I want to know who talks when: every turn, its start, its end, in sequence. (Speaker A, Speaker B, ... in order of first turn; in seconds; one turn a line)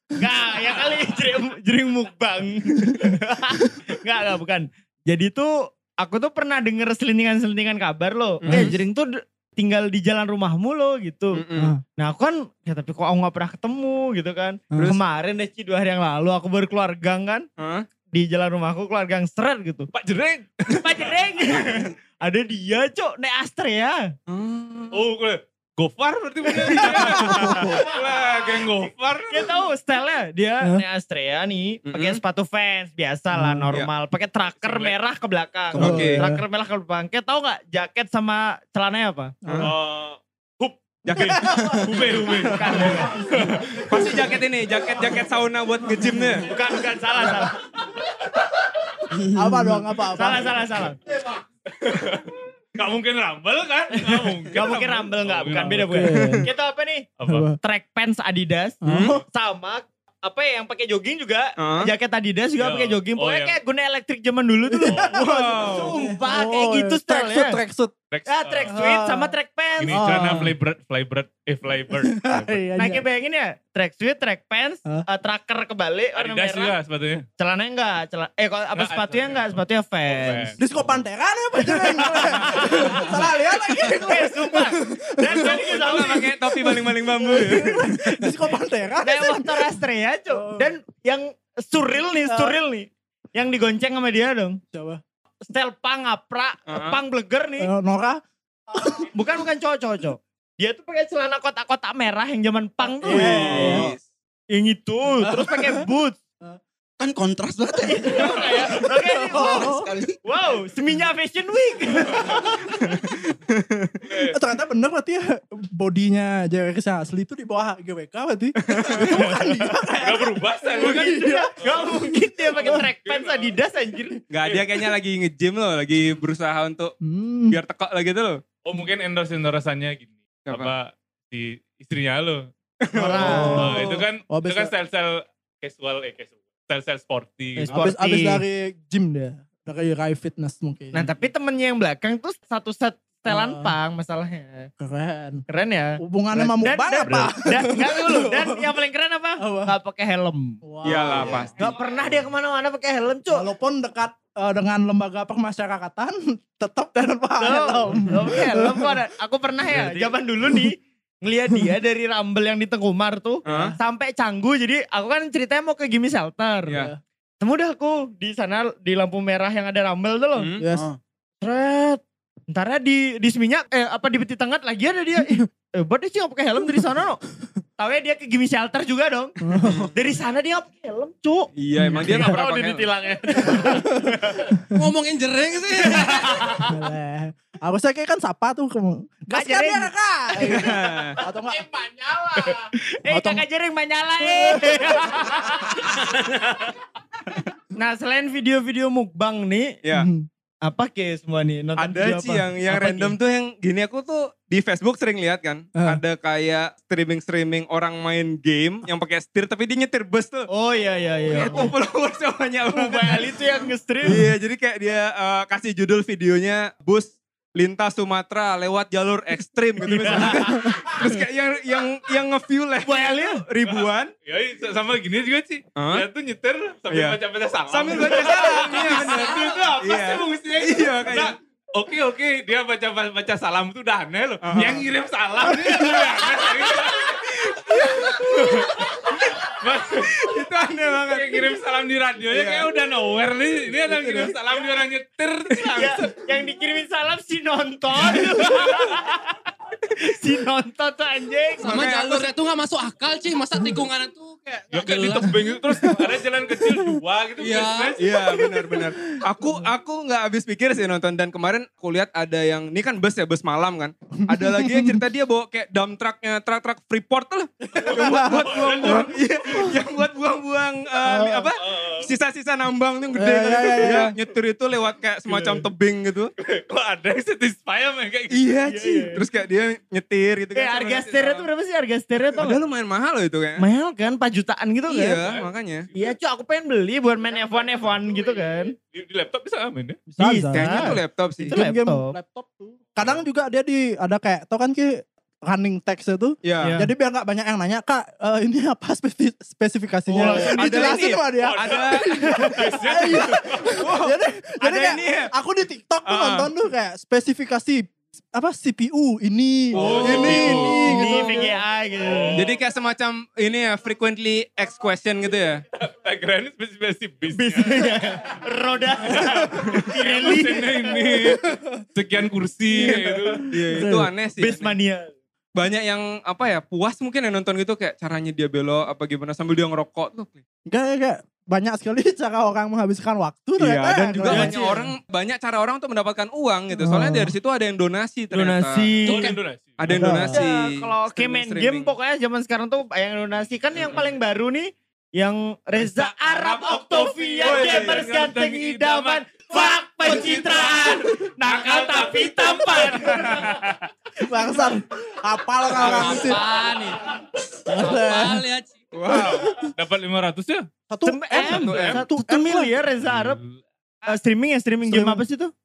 Speaker A: 0.2-11.4
Speaker B: 8.4-8.7
Speaker C: 8.5-8.7
Speaker B: 11.3-11.7
Speaker A: 12.0-17.5
Speaker C: 14.7-15.0
Speaker B: 17.6-17.9
Speaker A: 18.1-19.9
Speaker D: 19.9-20.4
Speaker A: 20.7-24.0
Speaker B: 24.3-24.9
Speaker D: 24.9-29.5
Speaker C: 26.8-27.8
Speaker A: 27.4-27.9
Speaker A: 29.3-39.3
Speaker B: 31.9-32.2
Speaker C: 33.3-33.7
Speaker D: 34.6-34.9
Speaker B: 35.7-36.2
Speaker C: 35.7-36.4
Speaker C: 39.4-39.7
Speaker D: 39.6-43.8
Speaker B: 41.0-43.2
Speaker C: 41.1-41.9
Speaker A: 42.5-43.3
Speaker B: 43.8-46.5
Speaker A: 46.5-47.6
Speaker E: 49.1-49.8
Speaker C: 49.3-50.6
Speaker A: 50.1-51.0
Speaker D: 51.8-56.0
Speaker A: 54.0-57.0
Speaker C: 55.8-56.5
Speaker B: 56.1-56.5
Speaker D: 57.2-57.5
Speaker C: 57.2-57.6
Speaker A: 57.6-58.8
Speaker C: 58.8-59.2
Speaker B: 58.9-59.2
Speaker A: 59.3-67.6
Speaker B: 61.6-61.9
Speaker D: 62.6-63.6
Speaker C: 64.7-67.9
Speaker D: 64.9-65.1
Speaker B: 65.2-65.9
Speaker D: 68.1-68.7
Speaker A: 68.3-70.2
Speaker C: 68.7-69.3
Speaker D: 69.8-72.6
Speaker C: 69.9-70.5
Speaker C: 72.0-73.0
Speaker A: 72.8-76.7
Speaker D: 76.2-77.2
Speaker A: 77.4-80.5
Speaker D: 78.7-81.0
Speaker C: 80.6-89.7
Speaker A: 81.6-83.0
Speaker A: 83.8-86.3
Speaker B: 85.3-88.1
Speaker A: 89.0-94.6
Speaker C: 90.3-90.7
Speaker C: 92.3-92.6
Speaker C: 94.7-95.0
Speaker A: 95.5-97.7
Speaker B: 96.7-97.0
Speaker C: 97.6-98.2
Speaker C: 98.7-99.1
Speaker A: 99.1-103.9
Speaker C: 103.0-103.9
Speaker B: 103.1-104.0
Speaker A: 104.5-106.2
Speaker C: 105.2-105.8
Speaker E: 107.0-108.3
Speaker A: 107.8-109.6
Speaker C: 108.6-109.9
Speaker E: 109.3-110.2
Speaker A: 110.2-112.6
Speaker B: 113.5-113.9
Speaker D: 114.0-114.4
Speaker C: 114.3-121.5
Speaker B: 118.6-119.2
Speaker D: 119.1-123.5
Speaker A: 120.8-124.2
Speaker B: 124.3-126.9
Speaker D: 124.5-124.7
Speaker C: 127.0-127.6
Speaker B: 127.5-128.4
Speaker D: 128.6-132.5
Speaker B: 130.5-130.7
Speaker B: 132.8-133.6
Speaker A: 132.9-133.7
Speaker C: 133.2-134.7
Speaker D: 133.3-137.7
Speaker A: 137.6-138.4
Speaker C: 137.7-141.1
Speaker A: 140.9-144.7
Speaker C: 143.3-143.7
Speaker C: 144.8-145.4
Speaker A: 145.5-150.6
Speaker C: 146.0-148.6
Speaker C: 149.4-149.7
Speaker C: 150.6-151.7
Speaker B: 150.8-151.7
Speaker D: 151.0-151.4
Speaker A: 151.5-153.4
Speaker C: 153.3-158.9
Speaker A: 157.4-166.7
Speaker B: 163.4-163.8
Speaker C: 163.4-163.7
Speaker C: 166.7-167.0
Speaker A: 167.4-170.5
Speaker B: 170.3-170.7
Speaker C: 170.6-170.8
Speaker E: 170.7-171.0
Speaker A: 171.4-177.2
Speaker A: 177.8-179.3
Speaker C: 179.4-179.8
Speaker B: 179.6-179.9
Speaker A: 179.9-181.5
Speaker B: 181.6-182.9
Speaker C: 181.7-182.4
Speaker A: 182.1-184.5
Speaker C: 183.4-184.1
Speaker F: 184.7-186.7
Speaker C: 186.6-191.7
Speaker A: 189.3-190.8
Speaker B: 190.4-191.2
Speaker F: 192.1-192.5
Speaker A: 192.3-196.0
Speaker C: 193.1-193.4
Speaker C: 194.2-194.8
Speaker A: 197.7-199.7
Speaker B: 199.8-200.1
Speaker C: 199.9-200.3
Speaker A: 200.6-202.4
Speaker B: 201.8-210.5
Speaker D: 202.7-203.1
Speaker A: 210.5-211.7
Speaker B: 211.3-213.4
Speaker A: 212.7-214.2
Speaker B: 214.0-224.1
Speaker A: 219.9-220.3
Speaker C: 220.1-220.8
Speaker A: 222.8-223.4
Speaker D: 223.7-239.0
Speaker B: 225.8-226.1
Speaker B: 226.9-227.2
Speaker B: 227.7-231.3
Speaker B: 234.4-234.8
Speaker D: 239.5-240.3
Speaker B: 240.1-241.6
Speaker D: 241.1-246.1
Speaker B: 242.3-242.7
Speaker B: 243.9-244.3
Speaker A: 245.7-249.4
Speaker D: 248.5-248.8
Speaker A: 250.0-251.8
Speaker F: 251.6-255.4
Speaker B: 251.6-252.3
Speaker D: 254.7-258.0
Speaker C: 256.6-256.9
Speaker F: 257.4-258.0
Speaker B: 258.0-276.3
Speaker C: 258.2-258.9
Speaker C: 264.3-265.0
Speaker C: 267.8-269.8
Speaker D: 267.9-269.7
Speaker C: 271.0-271.5
Speaker D: 271.6-272.1
Speaker C: 273.1-274.1
Speaker D: 275.3-275.6
Speaker D: 276.4-278.4
Speaker B: 278.3-281.5
Speaker A: 278.7-279.2
Speaker A: 280.6-282.6
Speaker B: 282.4-283.6
Speaker A: 283.6-285.2
Speaker B: 284.9-285.9
Speaker A: 285.9-288.7
Speaker D: 288.9-290.0
Speaker C: 290.1-311.6
Speaker A: 290.2-290.9
Speaker B: 290.5-291.5
Speaker A: 291.5-292.1
Speaker B: 296.4-296.8
Speaker A: 296.6-296.9
Speaker A: 300.1-300.6
Speaker B: 300.2-302.1
Speaker D: 300.7-303.8
Speaker B: 303.8-304.1
Speaker A: 304.6-304.9
Speaker B: 304.7-305.3
Speaker B: 306.0-306.5
Speaker D: 309.7-311.1
Speaker B: 309.7-310.7
Speaker A: 309.8-312.4
Speaker D: 312.0-312.6
Speaker B: 312.4-315.6
Speaker D: 315.8-317.9
Speaker A: 317.3-320.8
Speaker D: 319.8-323.5
Speaker C: 321.2-321.6
Speaker C: 322.8-324.1
Speaker B: 323.5-324.7
Speaker A: 324.4-325.1
Speaker B: 325.5-330.4
Speaker C: 330.7-334.9
Speaker B: 333.6-339.2
Speaker A: 334.3-334.7
Speaker C: 336.8-337.3
Speaker A: 338.3-339.3
Speaker D: 339.0-340.1
Speaker B: 339.8-341.9
Speaker C: 339.9-340.4
Speaker A: 340.3-353.6
Speaker D: 345.8-349.4
Speaker B: 347.4-348.0
Speaker D: 350.0-353.8
Speaker C: 354.2-356.4
Speaker F: 355.8-358.7
Speaker C: 357.7-358.4
Speaker B: 358.9-359.5
Speaker C: 359.1-359.7
Speaker D: 359.7-360.7
Speaker C: 360.9-362.7
Speaker A: 361.0-363.4
Speaker B: 361.5-362.0
Speaker D: 363.0-363.6
Speaker A: 364.1-365.5
Speaker C: 364.8-365.2